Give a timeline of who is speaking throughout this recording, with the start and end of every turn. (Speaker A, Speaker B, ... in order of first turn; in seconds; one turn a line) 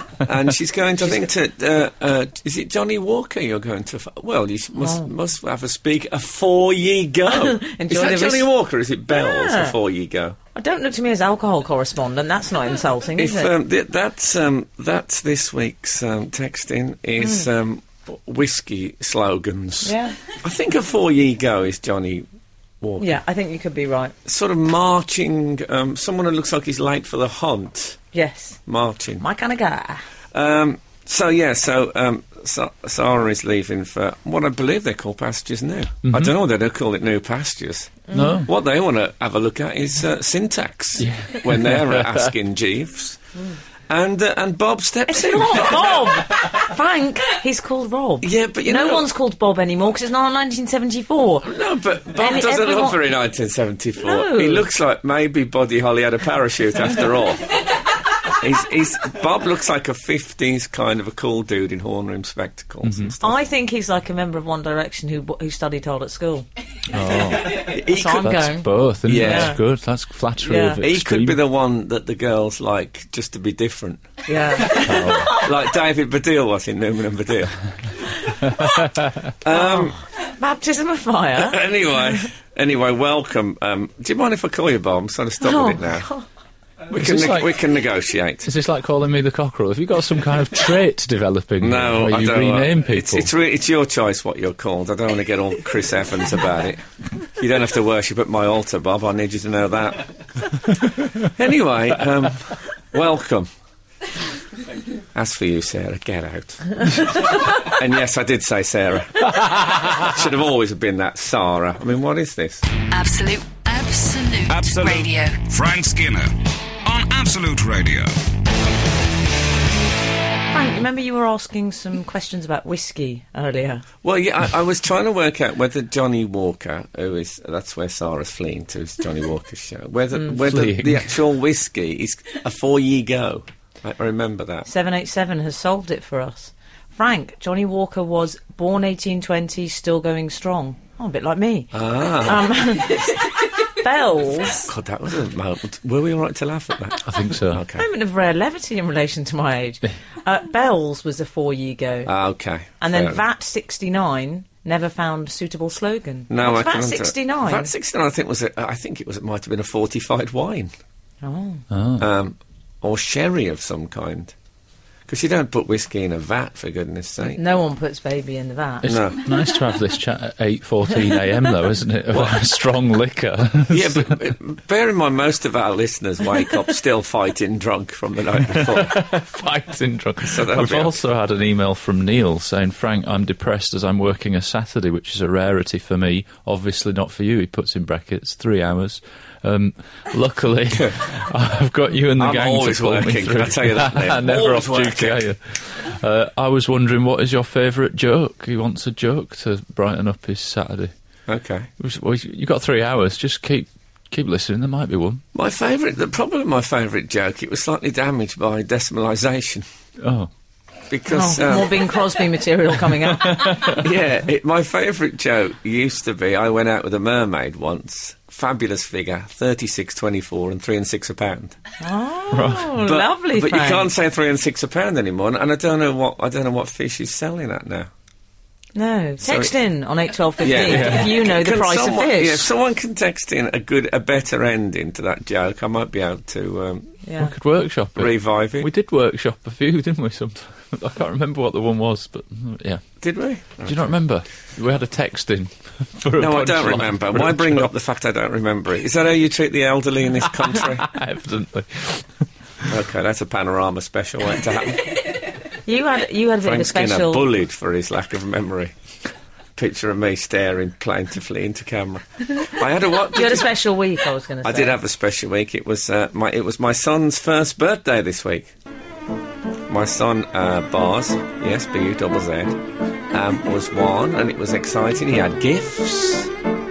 Speaker A: 0.2-10.4
Speaker B: 4.8-5.1
Speaker B: 7.3-8.5
Speaker B: 9.1-9.8
Speaker B: 10.6-13.5
Speaker A: 13.2-22.3
Speaker B: 19.8-20.2
Speaker A: 22.8-23.1
Speaker B: 23.0-24.1
Speaker A: 24.2-28.0
Speaker B: 28.1-28.6
Speaker A: 28.7-29.2
Speaker B: 29.2-30.0
Speaker A: 30.3-43.2
Speaker C: 36.0-36.4
Speaker C: 38.1-38.5
Speaker C: 41.0-42.3
Speaker A: 43.9-46.2
Speaker B: 45.1-51.5
Speaker A: 48.2-49.1
Speaker A: 51.4-57.6
Speaker B: 52.1-53.0
Speaker B: 54.0-54.7
Speaker A: 58.2-63.5
Speaker C: 62.8-63.1
Speaker B: 63.2-66.5
Speaker C: 66.9-71.4
Speaker A: 67.5-68.4
Speaker B: 67.7-69.6
Speaker A: 69.0-69.6
Speaker B: 70.4-70.8
Speaker A: 70.8-77.6
Speaker B: 74.3-75.5
Speaker C: 74.8-75.3
Speaker B: 78.3-78.7
Speaker A: 79.4-80.0
Speaker B: 79.5-81.6
Speaker A: 81.3-86.1
Speaker B: 85.4-86.2
Speaker A: 86.9-88.5
Speaker C: 86.9-87.6
Speaker C: 88.4-93.3
Speaker A: 91.6-103.5
Speaker A: 105.1-112.7
Speaker D: 112.9-115.4
Speaker E: 114.5-116.3
Speaker E: 116.8-118.2
Speaker B: 120.5-123.8
Speaker A: 124.0-134.7
Speaker C: 130.3-131.2
Speaker B: 134.7-144.7
Speaker A: 141.7-142.5
Speaker A: 144.5-147.9
Speaker C: 147.1-147.6
Speaker B: 147.7-152.1
Speaker A: 152.1-153.2
Speaker B: 152.8-157.7
Speaker A: 156.3-160.7
Speaker B: 161.2-161.6
Speaker C: 161.7-162.1
Speaker A: 162.0-164.3
Speaker A: 165.1-167.4
Speaker B: 167.3-168.9
Speaker A: 168.8-169.3
Speaker C: 168.8-174.2
Speaker A: 172.1-172.4
Speaker A: 173.7-179.1
Speaker C: 178.5-200.9
Speaker A: 180.3-181.0
Speaker A: 192.2-195.2
Speaker A: 201.3-201.7
Speaker C: 201.8-205.2
Speaker A: 205.3-209.7
Speaker C: 210.0-210.3
Speaker A: 210.9-211.9
Speaker B: 211.1-213.7
Speaker C: 213.3-213.8
Speaker A: 213.7-221.6
Speaker B: 221.8-223.9
Speaker C: 222.3-222.8
Speaker A: 222.8-227.9
Speaker B: 228.8-232.5
Speaker A: 229.2-229.5
Speaker A: 230.4-237.0
Speaker C: 230.6-231.1
Speaker B: 237.0-237.3
Speaker C: 237.2-242.8
Speaker A: 238.0-238.7
Speaker A: 243.0-243.9
Speaker C: 243.6-247.7
Speaker A: 246.2-250.9
Speaker C: 250.5-252.1
Speaker A: 252.7-255.1
Speaker B: 255.7-257.3
Speaker A: 256.4-258.7
Speaker A: 259.6-263.5
Speaker B: 263.1-264.8
Speaker A: 264.4-268.5
Speaker A: 269.7-276.3